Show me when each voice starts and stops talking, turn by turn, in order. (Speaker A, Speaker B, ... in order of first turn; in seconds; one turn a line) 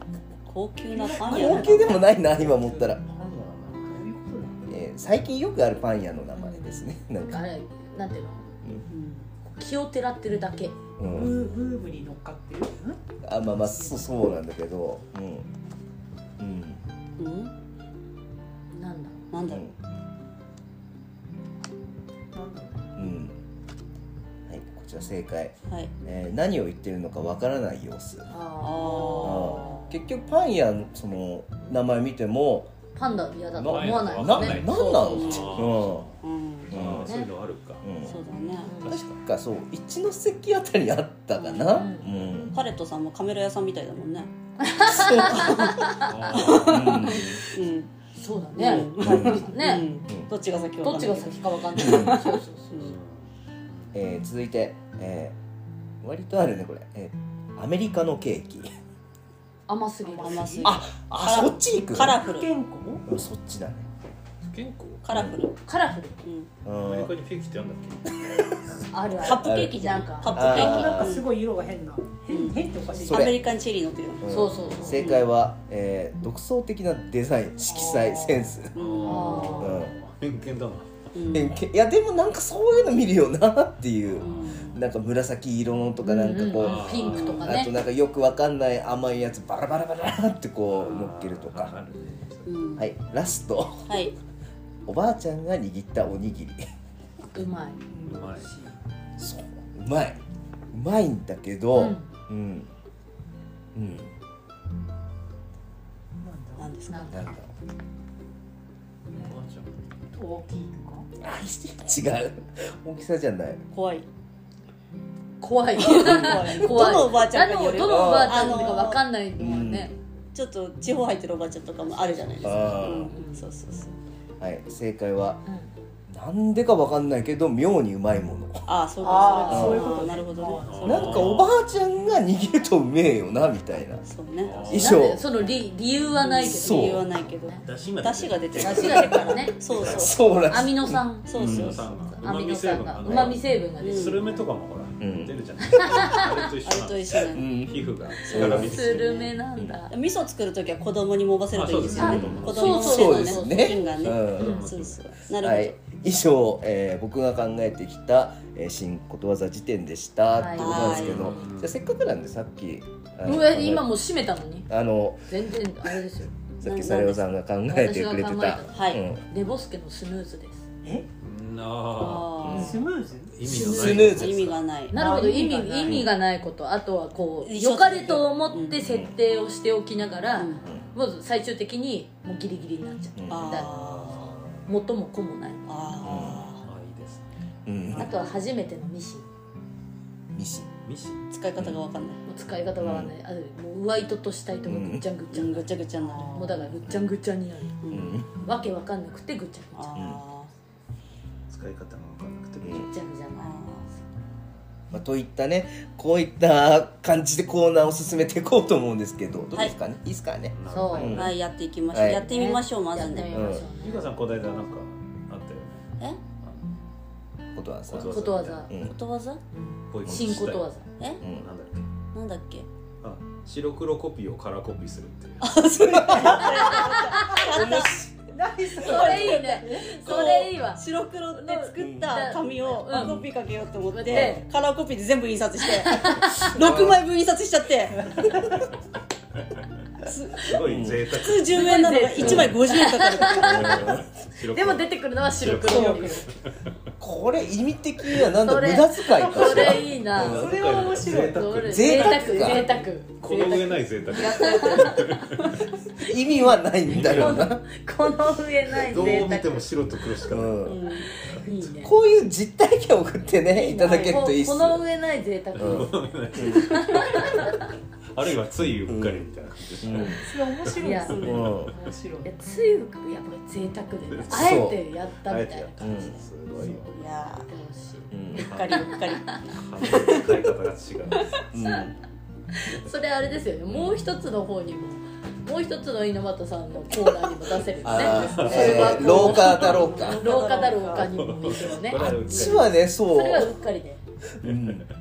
Speaker A: 0.5-2.0
Speaker B: 0.9-2.0
Speaker C: 1.2-3.0
Speaker D: 1.9-4.1
Speaker B: 3.2-4.7
Speaker C: 4.7-7.4
Speaker A: 6.3-6.8
Speaker E: 7.3-8.5
Speaker A: 8.9-9.3
Speaker E: 9.4-10.8
Speaker C: 11.0-11.4
Speaker B: 11.1-14.1
Speaker C: 13.2-15.5
Speaker C: 16.4-16.8
Speaker A: 17.2-17.5
Speaker E: 18.7-19.3
Speaker A: 19.3-19.6
Speaker C: 19.5-19.7
Speaker B: 22.3-23.1
Speaker C: 23.0-23.4
Speaker C: 24.5-28.3
Speaker E: 28.3-29.8
Speaker A: 28.6-30.0
Speaker C: 29.2-32.7
Speaker E: 32.9-35.6
Speaker C: 33.5-36.1
Speaker D: 33.7-37.9
Speaker A: 35.1-35.6
Speaker A: 36.2-36.8
Speaker C: 36.7-37.1
Speaker E: 36.8-37.3
Speaker C: 37.8-38.2
Speaker A: 38.0-38.7
Speaker E: 38.7-38.9
Speaker D: 38.8-39.1
Speaker C: 38.9-42.6
Speaker A: 41.4-41.7
Speaker E: 41.7-42.1
Speaker A: 42.5-44.3
Speaker E: 44.6-46.1
Speaker C: 44.8-47.4
Speaker D: 46.0-47.2
Speaker A: 46.3-47.9
Speaker E: 48.1-49.9
Speaker A: 48.5-52.9
Speaker C: 48.7-49.5
Speaker E: 50.8-53.0
Speaker C: 51.8-52.1
Speaker D: 52.8-54.0
Speaker C: 53.9-55.4
Speaker C: 56.0-58.7
Speaker E: 59.7-60.8
Speaker A: 60.1-62.5
Speaker B: 60.2-60.5
Speaker C: 60.6-62.1
Speaker B: 61.9-63.0
Speaker C: 63.1-63.9
Speaker D: 64.4-65.0
Speaker A: 65.0-65.6
Speaker C: 65.1-65.4
Speaker E: 65.6-66.2
Speaker A: 66.2-66.5
Speaker C: 66.6-67.1
Speaker D: 66.7-68.2
Speaker E: 68.9-70.4
Speaker A: 69.2-71.3
Speaker C: 69.4-71.2
Speaker B: 70.3-73.3
Speaker A: 72.3-74.2
Speaker C: 73.0-73.4
Speaker C: 74.2-78.7
Speaker E: 74.2-75.1
Speaker A: 74.9-75.3
Speaker E: 77.7-79.8
Speaker A: 78.7-79.6
Speaker D: 78.7-81.1
Speaker C: 79.6-79.9
Speaker A: 81.1-81.5
Speaker C: 81.3-91.7
Speaker D: 84.1-84.6
Speaker A: 84.2-84.8
Speaker E: 86.0-87.7
Speaker D: 86.6-87.5
Speaker D: 90.7-92.6
Speaker E: 91.9-92.2
Speaker A: 92.5-92.9
Speaker C: 92.8-94.0
Speaker A: 93.9-94.1
Speaker C: 94.9-96.6
Speaker E: 97.3-97.8
Speaker B: 97.9-98.8
Speaker D: 98.0-98.5
Speaker C: 99.2-100.2
Speaker C: 100.7-102.7
Speaker E: 101.7-102.1
Speaker C: 103.7-104.1
Speaker B: 106.2-106.7
Speaker A: 106.6-107.2
Speaker E: 106.9-107.4
Speaker C: 107.1-107.5
Speaker D: 109.1-109.8
Speaker B: 110.1-111.1
Speaker C: 111.2-113.6
Speaker A: 113.7-114.1
Speaker E: 115.4-119.9
Speaker A: 115.8-119.0
Speaker C: 117.8-118.8
Speaker C: 119.4-119.9
Speaker A: 120.3-124.0
Speaker E: 121.8-123.5
Speaker C: 122.4-123.1
Speaker C: 124.4-125.4
Speaker E: 125.5-125.7
Speaker C: 126.1-128.7
Speaker A: 128.7-131.3
Speaker B: 129.0-131.4
Speaker E: 129.2-129.8
Speaker C: 129.5-129.9
Speaker D: 130.6-131.6
Speaker C: 130.8-134.0
Speaker A: 134.0-134.6
Speaker D: 134.4-135.0
Speaker C: 134.7-135.2
Speaker E: 134.7-137.6
Speaker A: 136.2-140.2
Speaker C: 136.4-137.0
Speaker D: 137.6-140.1
Speaker E: 138.6-144.5
Speaker C: 139.8-141.0
Speaker A: 141.2-141.9
Speaker D: 141.3-149.1
Speaker A: 143.8-144.2
Speaker C: 145.0-145.8
Speaker E: 145.7-146.4
Speaker A: 145.9-147.5
Speaker C: 147.3-148.8
Speaker A: 148.3-149.3
Speaker E: 148.4-149.9
Speaker A: 149.9-155.8
Speaker D: 151.5-153.1
Speaker B: 151.8-152.2
Speaker E: 151.9-154.7
Speaker C: 152.2-154.6
Speaker D: 153.7-155.2
Speaker C: 155.4-163.9
Speaker E: 160.3-161.5
Speaker A: 160.6-161.3
Speaker D: 160.9-161.8
Speaker E: 163.2-164.7
Speaker C: 164.7-165.3
Speaker E: 165.3-166.3
Speaker C: 166.6-169.2
Speaker A: 166.6-167.2
Speaker E: 167.7-170.7
Speaker A: 168.7-169.0
Speaker D: 171.2-174.6
Speaker A: 172.0-172.9
Speaker E: 172.5-172.8
Speaker B: 172.5-173.3
Speaker E: 173.4-174.2
Speaker C: 173.4-174.4
Speaker A: 173.8-176.1
Speaker E: 174.9-183.7
Speaker B: 174.9-175.6
Speaker C: 175.8-176.1
Speaker A: 177.4-178.8
Speaker C: 178.8-179.1
Speaker A: 180.3-180.6
Speaker C: 183.2-183.7
Speaker A: 183.3-184.3
Speaker D: 183.6-184.7
Speaker E: 184.7-186.3
Speaker A: 185.7-186.6
Speaker C: 186.0-186.4
Speaker D: 186.6-187.3
Speaker C: 187.7-188.2
Speaker E: 187.9-189.3
Speaker C: 190.3-190.7
Speaker D: 190.8-191.3
Speaker A: 191.3-192.2
Speaker E: 192.2-197.7
Speaker C: 192.8-193.1
Speaker C: 194.7-195.0
Speaker A: 195.3-196.8
Speaker D: 196.2-196.5
Speaker A: 197.8-198.1
Speaker C: 197.9-198.3
Speaker E: 198.4-200.0
Speaker A: 199.7-200.5
Speaker C: 199.9-200.2
Speaker D: 201.5-202.9
Speaker C: 202.6-202.9
Speaker E: 202.8-203.6
Speaker A: 203.3-203.9
Speaker C: 204.9-211.3
Speaker D: 210.5-211.3
Speaker E: 210.7-211.3
Speaker A: 211.0-213.5
Speaker C: 211.9-212.2
Speaker E: 212.2-214.8
Speaker C: 213.2-213.6
Speaker D: 213.8-216.8
Speaker C: 217.5-218.9
Speaker D: 217.9-218.7
Speaker E: 218.1-218.7
Speaker A: 218.8-219.4
Speaker E: 219.5-220.8
Speaker D: 219.9-220.7
Speaker C: 220.0-220.3
Speaker D: 221.2-221.9
Speaker A: 222.1-222.7
Speaker D: 223.0-225.5
Speaker A: 225.4-228.0
Speaker C: 225.9-226.5
Speaker B: 227.2-230.1
Speaker A: 228.7-238.1
Speaker E: 228.8-233.2
Speaker C: 231.8-232.1
Speaker E: 233.8-234.4
Speaker E: 235.7-236.5
Speaker C: 236.4-237.0
Speaker A: 240.0-240.6
Speaker D: 240.4-241.6
Speaker C: 240.7-241.0
Speaker A: 241.1-243.8
Speaker E: 241.5-243.8
Speaker C: 242.2-242.5
Speaker C: 243.2-244.1
Speaker D: 243.4-246.3
Speaker E: 244.4-246.3
Speaker B: 245.7-246.1
Speaker C: 247.0-250.5
Speaker E: 248.3-250.5
Speaker D: 249.6-255.6
Speaker B: 250.2-251.6
Speaker E: 251.2-255.2
Speaker C: 251.6-252.7
Speaker B: 252.1-252.5
Speaker A: 254.1-254.5
Speaker C: 256.0-257.6
Speaker E: 256.4-259.8
Speaker D: 256.9-257.4
Speaker D: 258.7-261.4
Speaker C: 260.3-260.8
Speaker A: 260.6-261.1
Speaker E: 261.3-261.9
Speaker C: 261.8-264.8
Speaker E: 263.3-267.7
Speaker D: 265.6-267.6
Speaker C: 265.6-267.2
Speaker D: 268.1-271.3
Speaker C: 268.9-269.2
Speaker C: 269.8-270.2
Speaker B: 270.1-272.3
Speaker E: 270.8-271.5
Speaker C: 271.1-271.7
Speaker E: 272.2-276.1
Speaker D: 274.1-274.5
Speaker C: 274.3-274.8
Speaker D: 275.2-277.0
Speaker C: 275.8-276.2
Speaker A: 276.9-277.5
Speaker E: 277.2-278.1
Speaker C: 278.1-278.4
Speaker D: 278.3-278.9
Speaker A: 278.3-280.3
Speaker E: 278.7-279.2
Speaker D: 279.5-281.4
Speaker C: 281.5-282.0
Speaker E: 282.5-294.0
Speaker C: 287.8-290.2
Speaker D: 288.1-289.3
Speaker A: 288.7-291.1
Speaker D: 291.1-292.8
Speaker C: 291.9-293.5
Speaker C: 294.4-294.9
Speaker D: 294.4-294.9